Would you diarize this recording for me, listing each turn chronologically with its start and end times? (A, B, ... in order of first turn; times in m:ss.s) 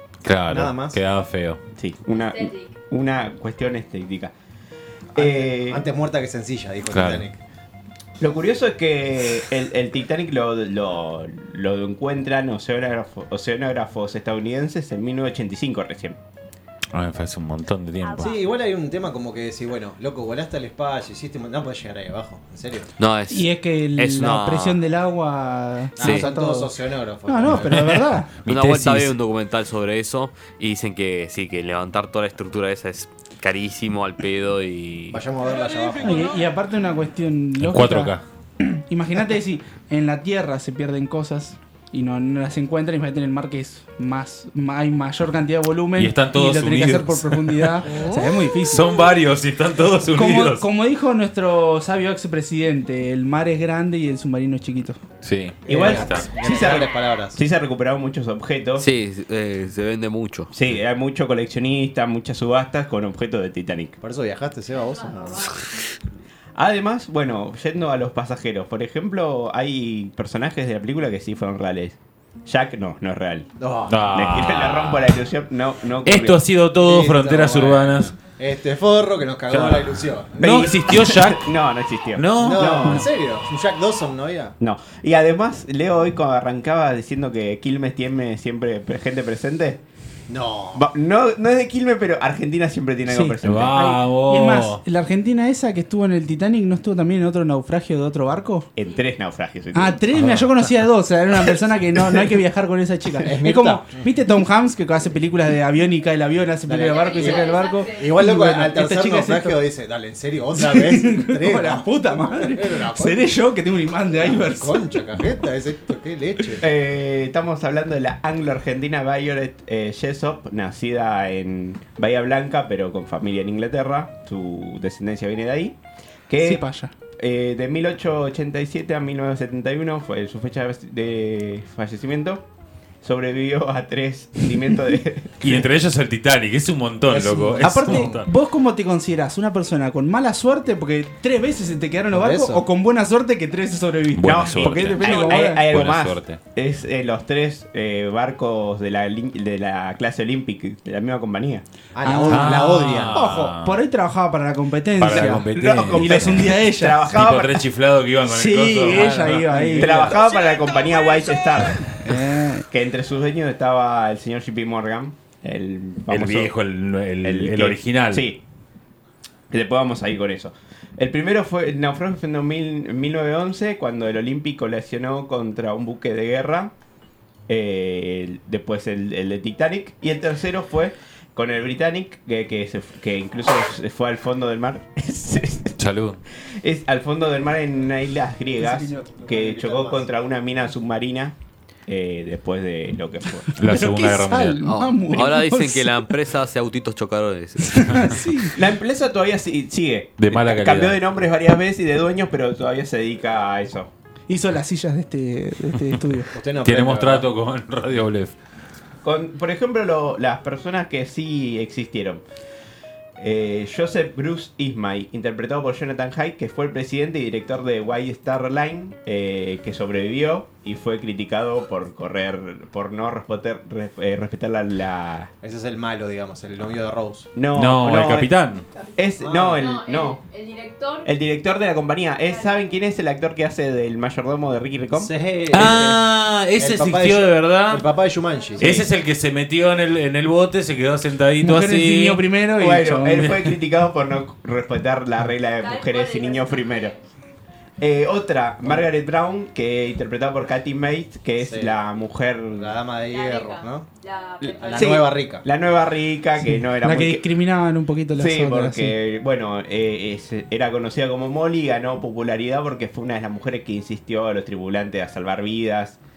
0:00.2-0:01.6 A
0:00.5-0:01.0 B
0:01.8-0:04.3 C
0:02.1-0:02.8 D
0:05.1-0:05.8 C
0:05.1-0:07.4 B
0:06.9-0:07.3 A
0:08.2-0:16.2 C
0:16.9-0:18.3 A
0:18.2-0:22.9 B
0:23.0-0:24.8 E
0:23.3-0:26.7 F
0:26.0-0:27.8 B
0:26.0-0:26.3 E
0:27.2-0:28.3 F
0:27.5-0:29.1 A
0:28.5-0:35.2 E
0:35.1-0:36.3 B
0:36.0-0:48.9 F
0:37.6-0:38.2 A
0:46.0-0:48.0 A
0:48.6-0:50.6 A
0:50.1-0:55.0 F
0:55.2-0:56.3 A
0:55.7-0:57.4 B
0:55.7-0:58.9 C
0:58.8-1:00.5 E
1:00.5-1:04.0 C
1:04.0-1:05.6 B
1:04.7-1:05.7 D
1:06.6-1:13.5 C
1:13.6-1:14.0 B
1:13.9-1:15.1 A
1:14.1-1:16.4 C
1:16.0-1:18.2 A
1:16.8-1:20.6 B
1:19.5-1:21.5 A
1:20.4-1:23.1 C
1:22.1-1:23.0 A
1:22.4-1:24.5 B
1:24.6-1:29.8 C
1:30.3-1:30.8 B
1:30.7-1:33.9 C
1:33.1-1:38.7 F
1:33.4-1:34.8 A
1:38.8-1:40.1 C
1:39.7-1:49.6 F
1:40.2-1:40.4 A
1:41.4-1:42.4 C
1:43.2-1:44.0 B
1:46.7-1:53.3 B
1:46.8-1:48.2 D
1:50.6-1:55.0 F
1:54.2-1:56.6 B
1:56.6-2:05.8 C
2:06.3-2:12.4 C
2:06.4-2:06.9 F
2:13.0-2:15.6 C
2:15.4-2:18.3 A
2:17.1-2:18.2 B
2:17.6-2:25.6 F
2:22.1-2:22.6 B
2:24.1-2:26.4 A
2:24.2-2:31.6 C
2:31.9-2:33.2 B
2:32.0-2:37.0 F
2:32.3-2:33.8 A
2:35.0-2:39.7 A
2:35.1-2:37.6 C
2:38.2-2:40.1 F
2:39.0-2:40.0 B
2:39.7-2:41.9 C
2:42.0-2:42.7 F
2:42.7-2:46.5 C
2:46.1-2:48.2 A
2:47.2-2:48.4 C
2:49.5-2:56.7 C
2:57.5-3:05.8 C
3:05.8-3:06.2 A
3:06.4-3:11.4 C
3:08.6-3:09.3 F
3:09.3-3:10.1 B
3:11.9-3:13.5 C
3:13.5-3:16.1 F
3:13.6-3:14.7 A
3:14.6-3:18.2 E
3:17.6-3:18.6 F
3:18.5-3:23.9 C
3:20.2-3:21.0 A
3:24.3-3:26.3 F
3:26.3-3:27.3 B
3:26.6-3:28.3 A
3:29.0-3:32.2 C
3:33.2-3:45.3 C
3:45.4-3:47.3 B
3:47.3-3:48.3 C
3:47.5-3:48.6 A
3:48.9-3:50.2 C
3:49.2-3:49.6 B
3:49.6-3:51.1 D
3:51.0-3:55.1 C
3:52.2-3:52.7 D
3:54.9-3:58.9 B
3:55.5-3:57.9 A
3:58.3-3:58.8 D
3:58.6-4:02.2 A
4:01.4-4:03.4 F
4:02.6-4:06.9 C
4:05.6-4:07.0 D
4:07.8-4:12.8 C
4:11.4-4:11.8 B
4:12.6-4:13.9 B
4:13.0-4:15.1 D
4:14.4-4:17.3 C
4:14.6-4:15.4 B
4:16.4-4:19.0 F
4:18.1-4:26.0 C